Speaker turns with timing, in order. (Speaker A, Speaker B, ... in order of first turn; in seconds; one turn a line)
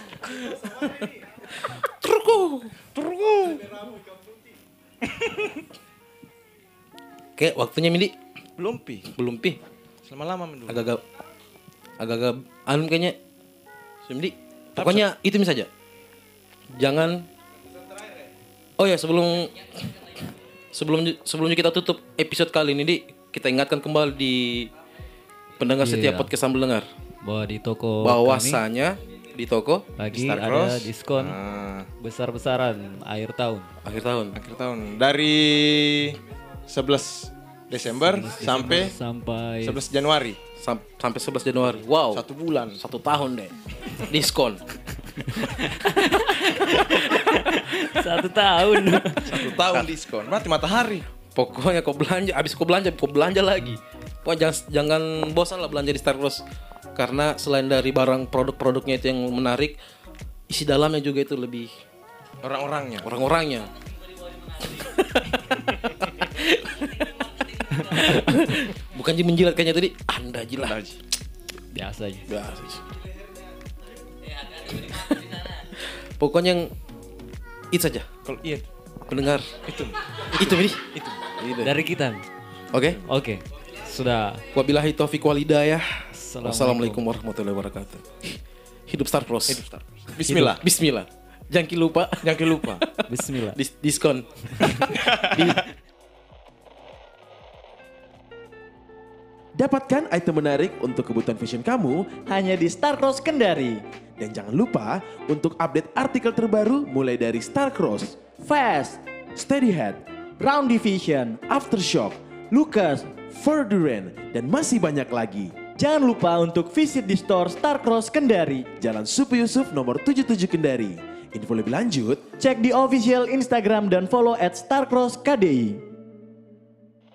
Speaker A: 0.2-3.8
Speaker B: 3.0-3.6
Speaker B: 5.0-5.6
Speaker A: 7.4-8.1
Speaker B: 8.6-9.1
Speaker A: 9.1-9.6
Speaker B: 10.1-10.8
Speaker A: 10.7-11.0
Speaker A: 12.0-13.2
Speaker A: 14.0-15.7
Speaker B: 14.8-15.1
Speaker A: 16.7-17.3
Speaker A: 18.8-20.0
Speaker A: 20.7-24.7
Speaker A: 25.6-26.9
Speaker C: 25.8-26.3
Speaker C: 27.2-28.6
Speaker A: 28.0-29.9
Speaker C: 30.0-31.4
Speaker B: 30.1-31.9
Speaker C: 32.0-33.7
Speaker A: 33.8-34.4
Speaker B: 34.3-38.9
Speaker C: 38.1-39.8
Speaker B: 39.6-40.4
Speaker A: 40.6-44.6
Speaker B: 42.1-42.8
Speaker C: 45.2-49.5
Speaker B: 49.3-51.0
Speaker A: 49.5-49.9
Speaker A: 51.3-56.4
Speaker A: 56.9-59.8
Speaker A: 60.5-61.7
Speaker B: 62.4-63.1
Speaker A: 63.0-63.7
Speaker A: 64.5-70.8
Speaker B: 70.6-71.0
Speaker C: 71.7-72.3
Speaker A: 72.2-72.8
Speaker A: 74.5-76.7
Speaker A: 77.7-78.1
Speaker B: 78.2-78.7
Speaker A: 79.1-79.6
Speaker B: 79.7-81.2
Speaker A: 80.4-81.7
Speaker C: 81.6-82.2
Speaker A: 82.7-83.0
Speaker C: 83.0-84.4
Speaker A: 84.5-89.6
Speaker C: 86.1-87.1
Speaker B: 89.5-90.6
Speaker A: 90.2-95.6
Speaker B: 92.2-92.8
Speaker C: 93.1-93.6
Speaker C: 94.6-95.4
Speaker B: 94.7-95.5
Speaker D: 99.5-102.2
Speaker E: 102.3-103.8
Speaker D: 104.2-108.2
Speaker E: 108.4-109.0
Speaker D: 109.3-110.0
Speaker E: 110.4-111.4
Speaker D: 111.5-112.2
Speaker E: 112.5-113.1
Speaker D: 113.2-115.6
Speaker E: 115.7-118.7
Speaker D: 118.8-122.3
Speaker E: 122.4-125.8